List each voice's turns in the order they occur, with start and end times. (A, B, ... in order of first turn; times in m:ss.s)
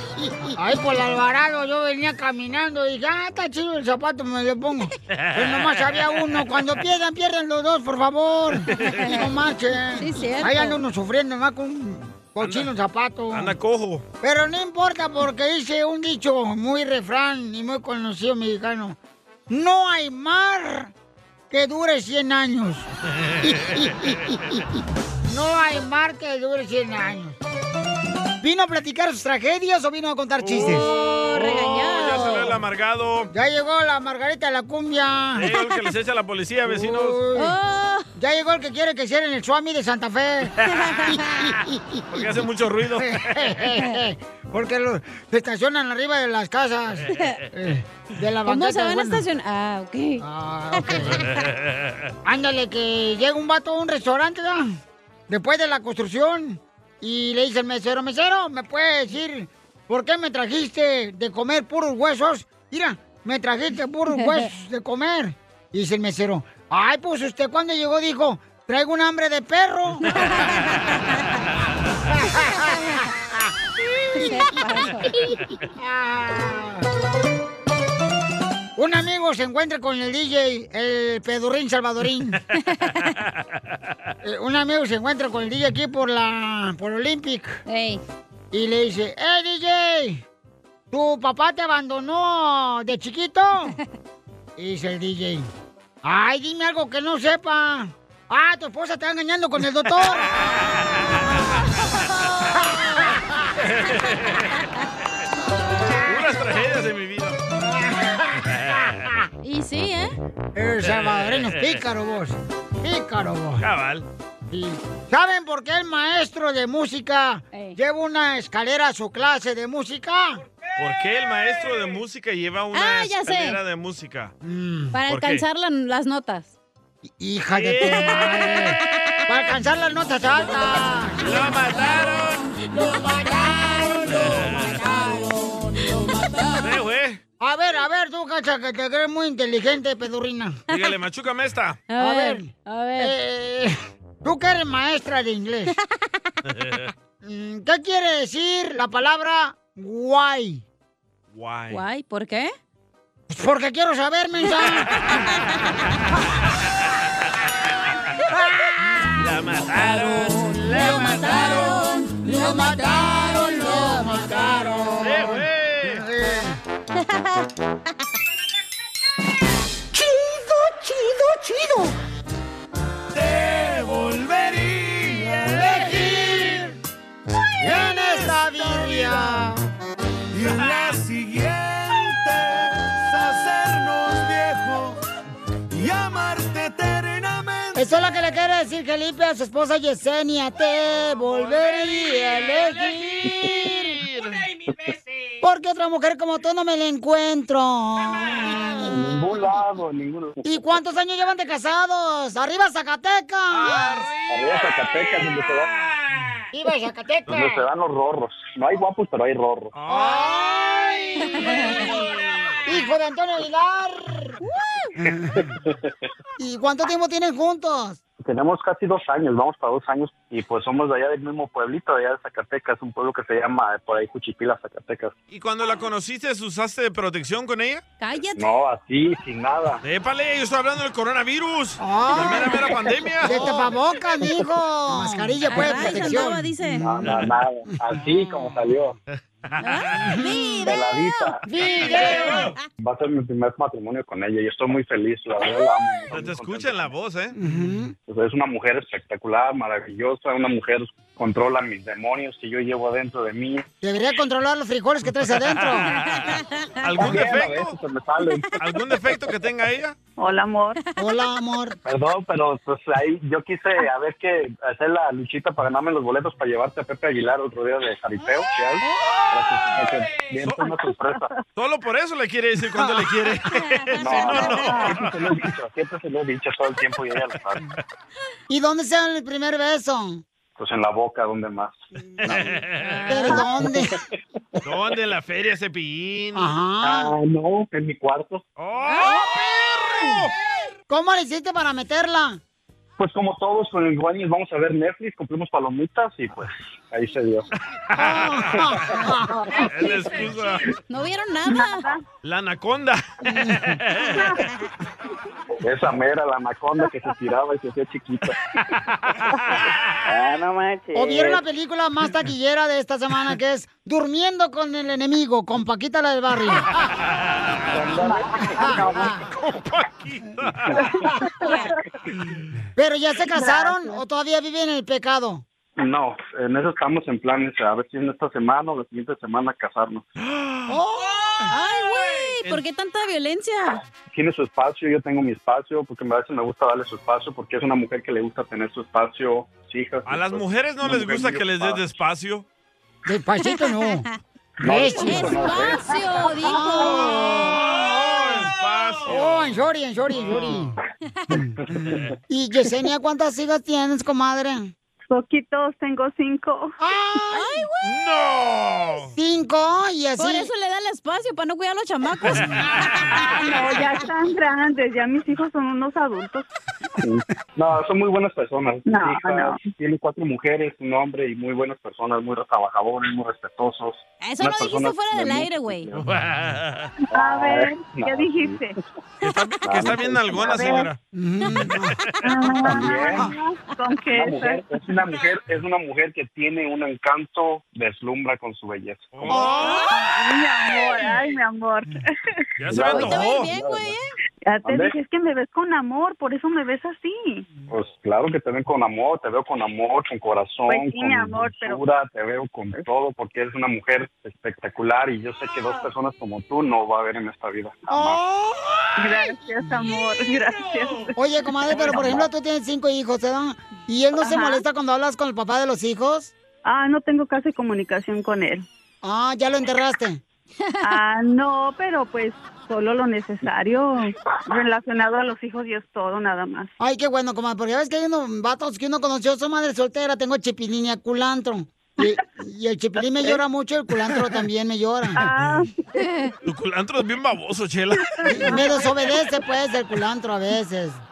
0:00.6-0:13.5 A
0:05.1-0:06.2 B
0:08.7-0:09.0 B
0:08.9-0:09.2 C
0:10.0-0:10.8 C
0:12.4-0:12.7 B
0:13.3-0:14.0 B
0:14.2-0:19.0 A
0:19.5-0:20.9 A
0:21.5-0:22.9 A
0:23.5-0:24.1 A
0:25.3-0:27.4 A
0:28.4-0:30.9 A
0:30.4-0:33.3 B
0:30.6-0:32.5 C
0:33.3-0:35.5 A
0:35.4-0:37.2 B
0:36.7-0:37.5 A
0:37.4-0:38.1 C
0:38.2-0:40.6 A
0:42.1-0:43.6 B
0:43.0-0:49.2 A
0:48.5-0:50.2 C
0:50.2-0:51.3 A
0:51.0-0:51.2 C
0:51.0-0:52.1 B
0:52.2-0:54.7 A
0:55.3-1:10.1 A
1:10.2-1:10.5 C
1:12.1-1:13.0 A
1:14.2-1:15.1 C
1:15.8-1:16.8 A
1:18.8-1:22.4 A
1:24.2-1:27.6 A
1:27.7-1:28.0 C
1:28.5-1:30.2 A
1:30.9-1:33.8 A
1:34.6-1:35.5 A
1:36.0-1:40.3 A
1:43.9-1:44.4 B
1:46.0-1:47.4 B
1:47.7-1:48.2 A
1:48.5-1:49.0 B
1:49.4-1:50.1 C
1:50.6-1:53.6 A
1:50.8-1:51.8 B
1:53.6-1:54.1 B
1:54.5-2:00.4 A
2:00.8-2:04.3 B
2:02.7-2:03.6 C
2:04.4-2:05.0 A
2:04.9-2:06.5 C
2:05.1-2:05.4 B
2:07.1-2:11.4 A
2:07.6-2:08.8 B
2:07.9-2:08.4 C
2:11.2-2:12.4 B
2:12.8-2:15.6 A
2:14.1-2:14.9 B
2:16.0-2:16.6 C
2:16.6-2:17.2 B
2:17.4-2:20.6 A
2:20.7-2:21.8 B
2:21.9-2:23.1 C
2:22.0-2:25.8 A
2:26.6-2:26.9 B
2:27.2-2:30.6 A
2:31.3-2:31.8 B
2:31.7-2:32.5 C
2:33.3-2:35.0 A
2:39.2-2:41.8 B
2:40.8-2:42.8 C
2:40.8-2:46.6 A
2:45.0-2:46.0 B
2:50.0-2:51.9 A
2:53.2-2:54.3 B
2:55.1-2:55.8 B
2:55.5-2:56.7 A
2:57.6-2:59.6 A
3:00.6-3:01.0 B
3:07.8-3:13.8 A
3:15.4-3:18.9 A
3:18.9-3:20.8 D
3:20.4-3:24.1 A
3:23.5-3:25.3 B
3:24.3-3:25.7 D
3:26.5-3:27.6 A
3:27.3-3:29.8 D
3:29.8-3:32.1 B
3:29.9-3:31.9 A
3:31.4-3:31.9 C
3:32.7-3:34.4 A
3:35.0-3:35.4 A
3:36.4-3:38.0 A
3:38.2-3:45.2 D
3:45.3-3:47.8 B
3:48.0-3:48.5 C
3:48.4-3:49.8 D
3:49.8-3:53.7 B
3:51.8-3:52.6 A
3:53.2-3:56.4 A
3:55.4-3:56.9 C
3:56.6-3:59.0 D
3:59.6-4:02.6 C
3:59.6-4:00.1 B
4:00.6-4:01.4 D
4:01.5-4:02.5 A
4:01.8-4:02.5 B
4:02.8-4:06.9 D
4:06.1-4:07.4 B
4:07.4-4:07.9 A
4:08.1-4:13.7 D
4:13.8-4:15.9 A
4:15.4-4:17.7 B
4:16.9-4:19.1 D
4:18.6-4:20.0 B
4:20.2-4:20.8 E
4:21.0-4:21.8 A
4:21.0-4:21.3 C
4:21.8-4:31.3 D
4:30.4-4:30.7 B
4:31.6-4:35.4 B
4:32.8-4:33.2 A
4:34.0-4:37.6 D
4:38.5-4:40.2 A
4:40.6-4:41.8 D
4:42.2-4:43.4 B
4:43.1-4:44.0 A
4:44.6-4:46.5 B
4:46.4-4:47.1 A
4:46.8-4:48.4 D
4:48.6-4:50.3 B
4:48.9-4:49.2 C
4:49.0-4:50.1 A
4:50.9-4:52.4 A
4:53.0-4:57.4 D
4:58.0-4:59.0 B
4:58.0-4:59.6 A
4:59.7-5:00.6 B
5:00.9-5:01.9 C
5:02.2-5:04.3 B
5:03.3-5:03.6 A
5:04.0-5:04.3 E
5:05.6-5:08.4 D
5:10.1-5:10.8 D
5:11.0-5:16.7 A
5:17.7-5:19.2 D
5:18.4-5:19.2 A
5:19.2-5:20.9 B
5:22.8-5:25.4 A
5:25.8-5:30.1 D
5:30.3-5:30.8 B
5:30.7-5:31.4 A
5:31.5-5:33.8 C
5:34.1-5:41.9 D
5:40.1-5:42.4 B
5:43.1-5:44.0 A
5:43.4-5:44.0 C
5:44.6-5:48.4 A
5:44.6-5:45.9 D
5:44.8-5:47.6 C
5:47.5-5:49.6 B
5:49.1-5:50.8 A
5:50.2-5:50.6 B
5:51.3-5:51.6 A
5:51.8-5:52.1 D
5:52.3-5:54.7 A
5:55.1-5:56.7 E
5:56.8-5:57.6 A
5:57.4-5:57.8 C
5:57.8-5:59.1 B
5:59.1-6:00.5 A
6:00.2-6:02.6 C
6:03.2-6:06.5 E
6:07.0-6:16.6 D
6:08.8-6:09.6 E
6:14.2-6:15.9 C
6:16.0-6:16.8 B
6:17.1-6:18.7 E
6:17.1-6:18.6 D
6:19.2-6:21.0 B
6:19.6-6:20.9 D
6:20.4-6:20.9 E
6:21.1-6:22.0 A
6:22.3-6:23.3 D
6:22.3-6:24.6 E
6:22.8-6:23.3 A
6:24.1-6:29.5 D
6:29.1-6:29.9 B
6:29.4-6:29.7 A
6:29.5-6:29.9 C
6:29.9-6:32.0 E
6:32.6-6:33.6 B
6:32.7-6:33.9 D
6:32.8-6:34.0 C
6:34.5-6:37.5 E
6:34.6-6:34.9 D
6:37.6-6:48.2 D
6:40.7-6:41.8 E
6:47.9-6:48.2 E
6:49.0-6:51.1 E
6:51.2-6:56.3 A
6:51.8-6:52.1 E
6:54.2-6:54.5 E
6:56.7-6:58.7 E
6:59.0-7:00.2 A
7:00.8-7:06.7 E
7:06.8-7:15.2 A
7:15.2-7:15.7 E
7:16.0-7:16.3 C
7:16.4-7:18.6 B
7:18.2-7:21.0 A